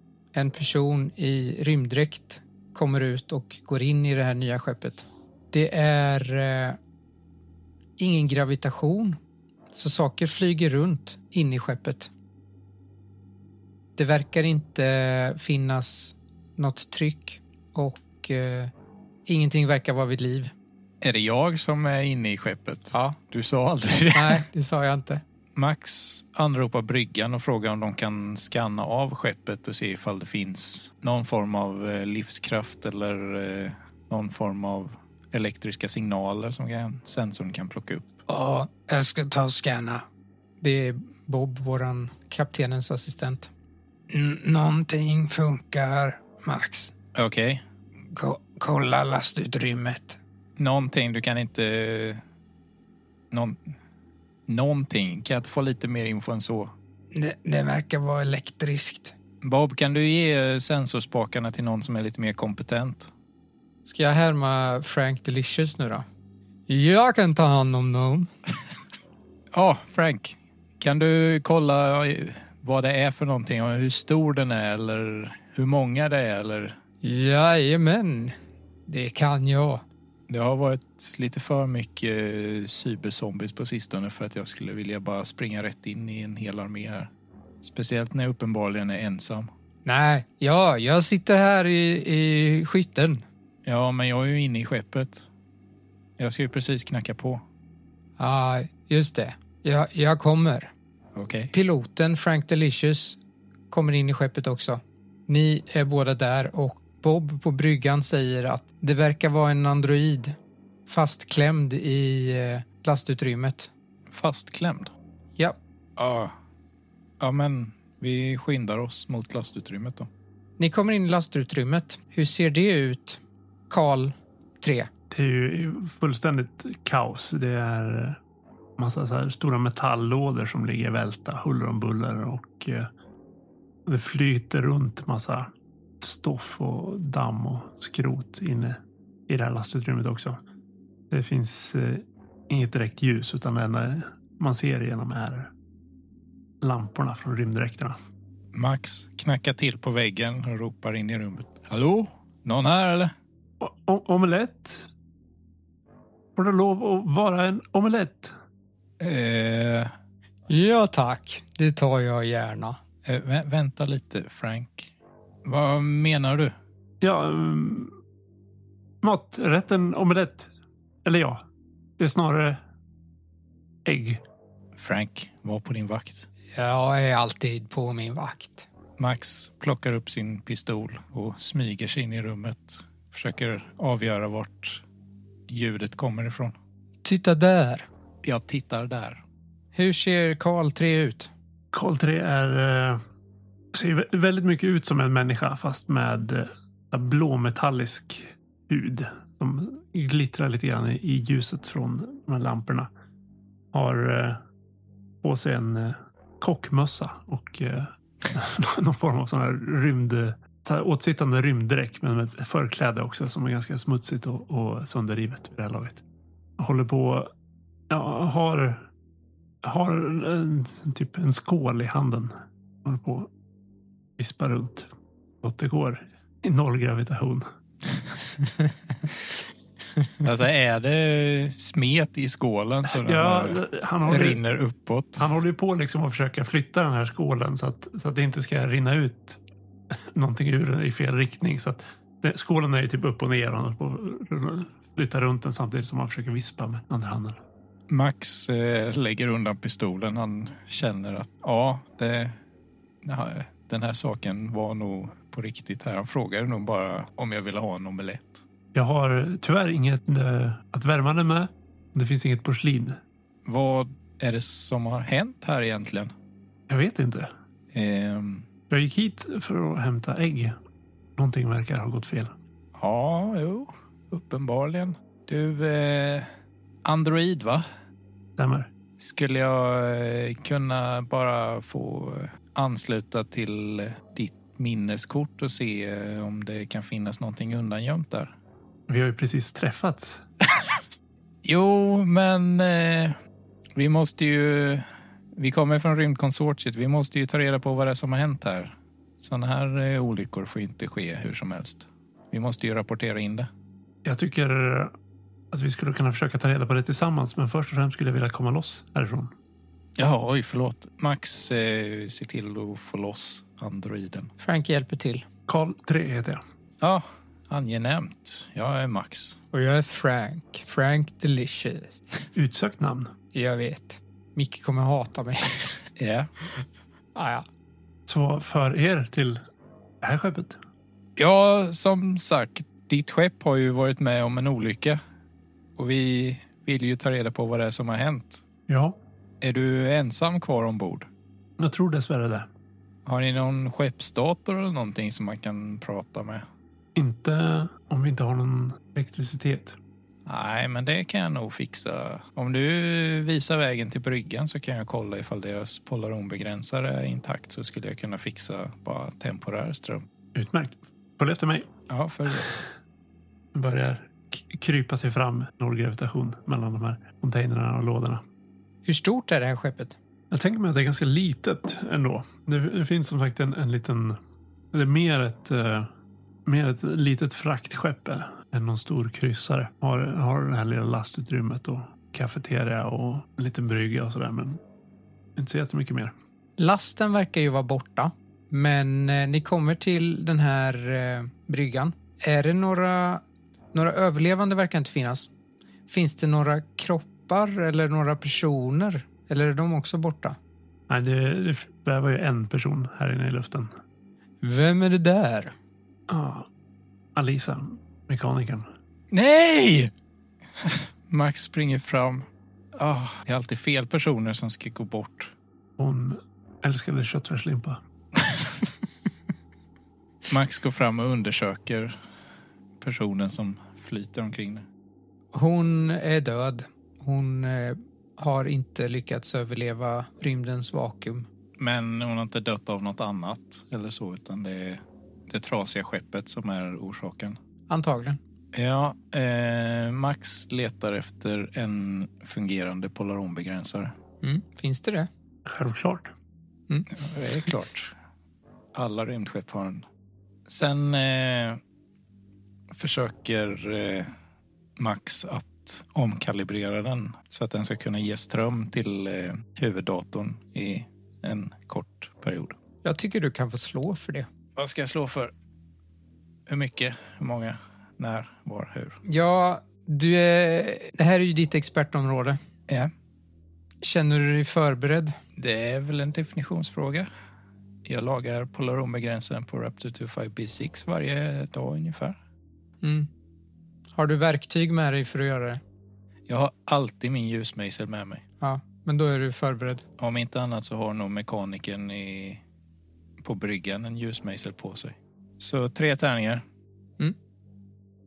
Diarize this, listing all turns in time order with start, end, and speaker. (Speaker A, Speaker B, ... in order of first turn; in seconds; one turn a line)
Speaker A: 0.3-6.8
Speaker A: 8.0-9.2
Speaker A: 9.7-12.1
Speaker A: 14.0-18.7
Speaker A: 19.3-20.5
Speaker B: 21.0-24.4
Speaker A: 24.1-25.2
Speaker B: 25.6-38.1
Speaker A: 38.3-40.0
Speaker A: 40.6-43.5
Speaker A: 44.1-46.9
Speaker B: 47.1-47.6
Speaker A: 48.1-50.2
Speaker B: 50.6-52.2
Speaker B: 53.3-53.6
Speaker B: 54.5-56.7
Speaker A: 57.1-59.1
Speaker B: 59.4-63.1
Speaker A: 63.9-66.1
Speaker A: 66.7-68.3
Speaker B: 69.5-76.8
Speaker A: 77.0-78.3
Speaker A: 78.9-79.8
Speaker B: 80.3-87.1
Speaker B: 87.6-89.5
Speaker A: 89.8-93.2
Speaker B: 93.7-95.3
Speaker B: 96.2-97.4
Speaker A: 98.2-100.7
Speaker B: 101.2-101.5
Speaker A: 101.5-103.2
Speaker A: 103.7-110.4
Speaker A: 110.9-113.7
Speaker B: 114.1-114.9
Speaker B: 116.0-116.3
Speaker B: 117.2-120.1
Speaker A: 120.6-123.2
Speaker A: 123.7-124.9
Speaker C: 125.1-128.2
Speaker C: 128.8-132.9
Speaker C: 133.9-135.5
Speaker C: 136.0-140.4
Speaker C: 141.1-145.5
Speaker C: 146.6-148.0
Speaker B: 148.5-153.1
Speaker C: 153.6-154.9
Speaker C: 156.4-158.3
Speaker B: 159.0-159.9
Speaker A: 160.5-162.8
Speaker B: 163.1-164.9
Speaker B: 165.4-166.6
Speaker C: 167.0-168.0
Speaker C: 169.0-170.5
Speaker C: 171.0-171.4
Speaker C: 172.0-172.6
Speaker C: 173.8-174.2
Speaker B: 174.8-176.3
Speaker A: 176.5-178.7
Speaker B: 179.0-184.8
Speaker B: 185.5-186.6
Speaker A: 187.0-187.9
Speaker B: 188.2-189.2
Speaker A: 189.7-191.3
Speaker C: 191.7-193.0
Speaker C: 193.7-202.9
Speaker C: 203.7-204.4
Speaker C: 205.2-216.0
Speaker C: 216.6-217.3
Speaker C: 217.9-218.9
Speaker C: 219.6-223.3
Speaker C: 224.2-224.9
Speaker C: 225.4-227.5
Speaker B: 230.2-235.3
Speaker C: 232.9-234.4
Speaker C: 235.2-239.4
Speaker C: 240.0-247.4
Speaker B: 247.9-252.4
Speaker B: 253.0-258.4
Speaker C: 258.7-263.0
Speaker B: 263.4-266.1
Speaker C: 266.7-267.3
Speaker B: 267.7-268.5
Speaker C: 268.7-270.6
Speaker C: 271.2-272.4
Speaker B: 272.8-276.3
Speaker B: 276.9-277.6
Speaker C: 278.4-278.7
Speaker B: 279.0-288.3
Speaker C: 288.9-290.2
Speaker B: 291.4-293.2
Speaker B: 293.8-303.5
Speaker C: 304.0-304.9
Speaker C: 305.5-309.3
Speaker B: 310.0-314.3
Speaker A: 314.4-315.2
Speaker C: 315.5-316.4
Speaker B: 316.8-319.4
Speaker A: 319.5-322.0
Speaker C: 322.4-323.1
Speaker A: 323.3-325.7
Speaker B: 326.0-326.3
Speaker A: 327.1-327.5
Speaker C: 328.1-329.4
Speaker C: 330.0-330.6
Speaker B: 331.2-335.0
Speaker B: 335.8-338.4
Speaker C: 338.7-339.0
Speaker B: 339.4-341.1
Speaker C: 341.6-342.5
Speaker B: 343.1-346.4
Speaker C: 347.0-349.8
Speaker B: 350.3-360.1
Speaker C: 360.4-361.7
Speaker B: 361.9-362.6
Speaker C: 363.5-368.2
Speaker A: 368.9-369.9
Speaker C: 370.3-374.2
Speaker C: 374.7-375.9
Speaker C: 376.5-384.6
Speaker C: 385.4-386.1
Speaker A: 386.6-395.3
Speaker A: 395.9-400.4
Speaker C: 400.9-403.7
Speaker A: 404.4-405.5
Speaker C: 406.1-406.5
Speaker C: 407.1-408.7
Speaker B: 409.1-409.9
Speaker B: 410.6-415.3
Speaker C: 415.8-417.8
Speaker B: 420.3-421.9
Speaker B: 422.8-424.6
Speaker A: 425.3-431.3
Speaker B: 431.6-437.4
Speaker A: 437.7-438.2
Speaker B: 438.5-443.9
Speaker A: 444.2-445.1
Speaker C: 445.4-446.1
Speaker B: 447.0-447.9
Speaker B: 448.7-449.8
Speaker B: 450.5-451.6
Speaker B: 452.7-454.1
Speaker B: 454.8-462.6
Speaker A: 462.8-464.3
Speaker B: 464.6-465.3
Speaker B: 466.5-469.0
Speaker A: 469.1-472.4
Speaker A: 473.8-475.2
Speaker B: 475.4-477.1
Speaker B: 477.9-482.2
Speaker A: 482.8-483.1
Speaker A: 483.9-485.6
Speaker B: 486.3-488.2
Speaker A: 488.4-489.8
Speaker B: 490.0-492.4
Speaker B: 493.2-496.4